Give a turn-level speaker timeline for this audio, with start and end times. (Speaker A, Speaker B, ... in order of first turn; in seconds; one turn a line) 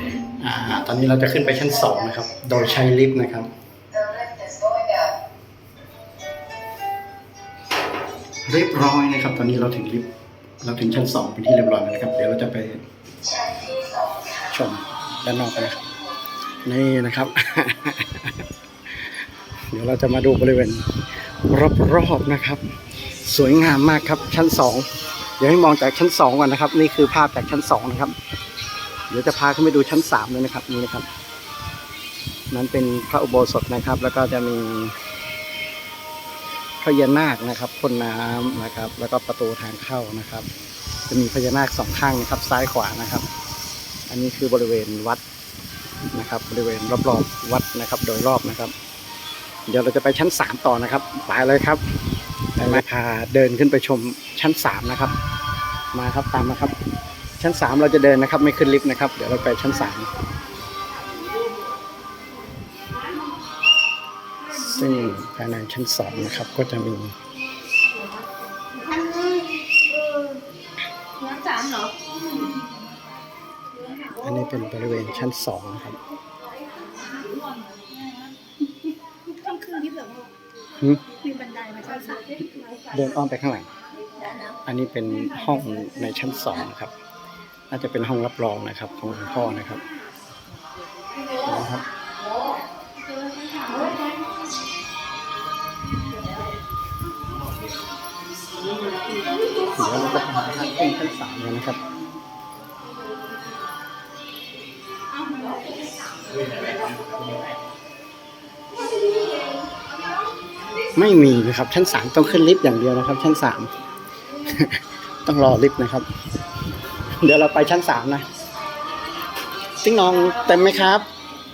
Speaker A: 0.4-3.5
Speaker A: 8.5-10.1
Speaker A: 10.6-12.8
Speaker A: 14.4-15.8
Speaker A: 16.6-18.5
Speaker A: 19.7-28.2
Speaker A: 29.1-31.1
Speaker A: 32.5-35.0
Speaker A: 36.8-40.5
Speaker A: 41.1-43.3
Speaker A: 44.1-45.2
Speaker A: 46.1-48.7
Speaker A: 49.7-51.8
Speaker A: 52.6-55.1
Speaker A: 55.9-56.8
Speaker A: 57.4-60.1
Speaker A: 64.5-67.2
Speaker B: 68.9-69.4
Speaker B: 71.3-71.6
Speaker A: 74.2-76.0
Speaker B: 78.9-80.3
Speaker A: 80.8-81.0
Speaker B: 81.1-82.9
Speaker A: 82.9-83.7
Speaker A: 84.7-86.9
Speaker A: 87.7-89.8
Speaker A: 91.4-91.9
Speaker A: 99.6-101.8
Speaker A: 110.9-113.7
Speaker A: 114.4-116.1
Speaker A: 117.2-118.3
Speaker A: 119.8-121.1